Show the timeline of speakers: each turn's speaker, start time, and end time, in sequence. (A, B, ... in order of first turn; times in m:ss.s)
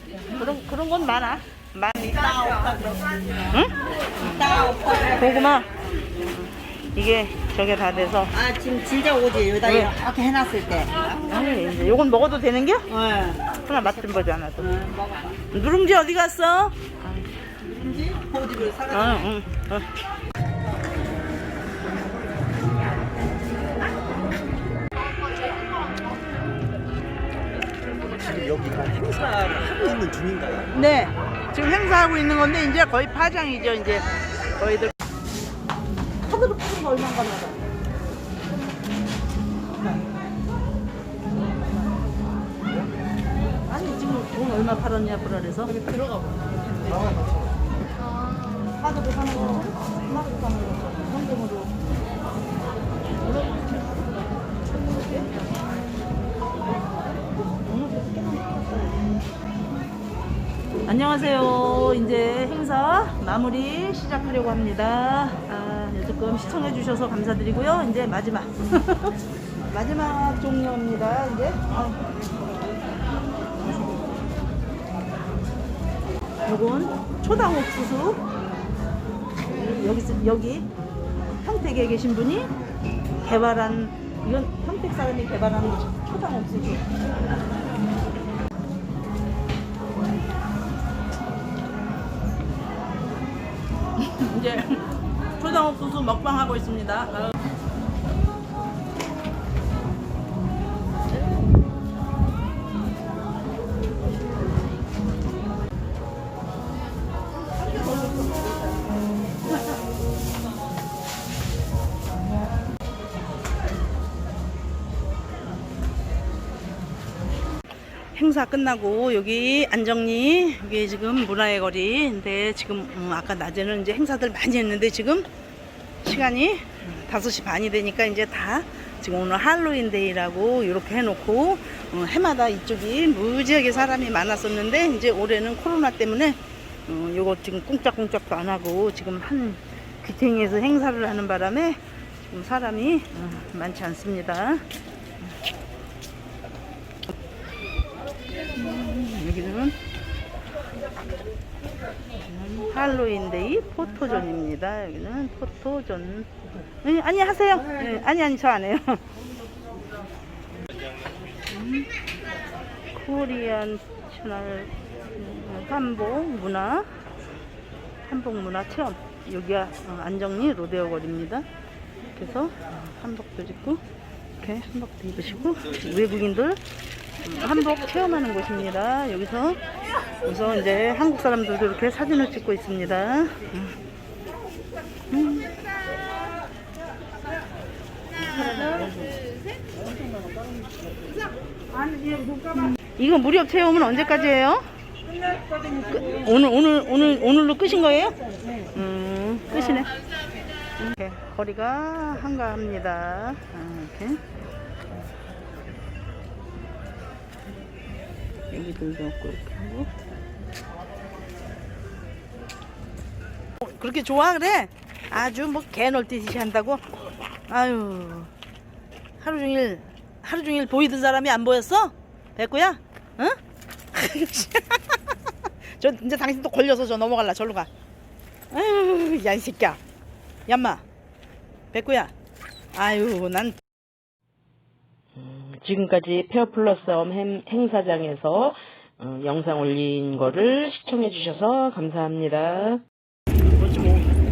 0:00.3-0:02.8 A
0:02.0-0:03.4 B
0:03.5-0:08.4 A
0:04.2-0:05.4 B
0:08.4-0:11.2 B
0:09.6-0:10.0 A
0:11.1-0:12.9 A
0:12.9-0:13.4 B
0:13.5-0:14.8 A
0:14.7-0:15.3 B
0:15.5-0:16.8 A
0:17.6-0:19.3 B
0:18.9-0:19.9 A
0:28.3-0:30.6 C
0:30.7-0:34.9 A
0:36.2-0:37.6 A
0:43.7-0:46.0 A
0:48.7-0:51.7 A
0:53.2-0:54.1 A
0:54.8-0:55.3 A
0:57.6-0:59.0 A
1:00.9-1:12.0 A
1:16.4-1:18.2 A
1:19.5-1:20.7 A
1:21.4-1:22.5 A
1:23.2-1:26.9 A
1:34.0-1:37.3 A
1:47.7-1:48.5 A
1:58.2-2:05.3 A
2:06.0-2:24.6 A
2:28.5-2:29.8 A
2:32.3-2:36.3 A
2:36.8-2:39.0 A
2:41.5-2:41.9 A
2:42.9-2:47.0 A
2:48.1-2:51.4 A
2:52.1-2:53.8 A
2:54.4-2:56.6 A
2:57.2-2:59.6 A
3:00.2-3:03.8 A
3:05.1-3:05.6 A
3:08.2-3:09.2 A
3:11.8-3:14.7 A
3:15.9-3:19.9 A
3:20.8-3:24.2 A
3:28.5-3:29.9 A
3:33.6-3:36.9 A
3:37.5-3:38.3 A
3:39.2-3:43.4 A
3:43.9-3:45.1 A
3:45.8-3:47.7 A
3:48.5-3:49.8 A
3:50.5-3:50.8 A
3:51.7-3:52.1 A
3:52.7-3:53.6 A
3:55.2-4:02.8 D
4:03.5-4:04.1 A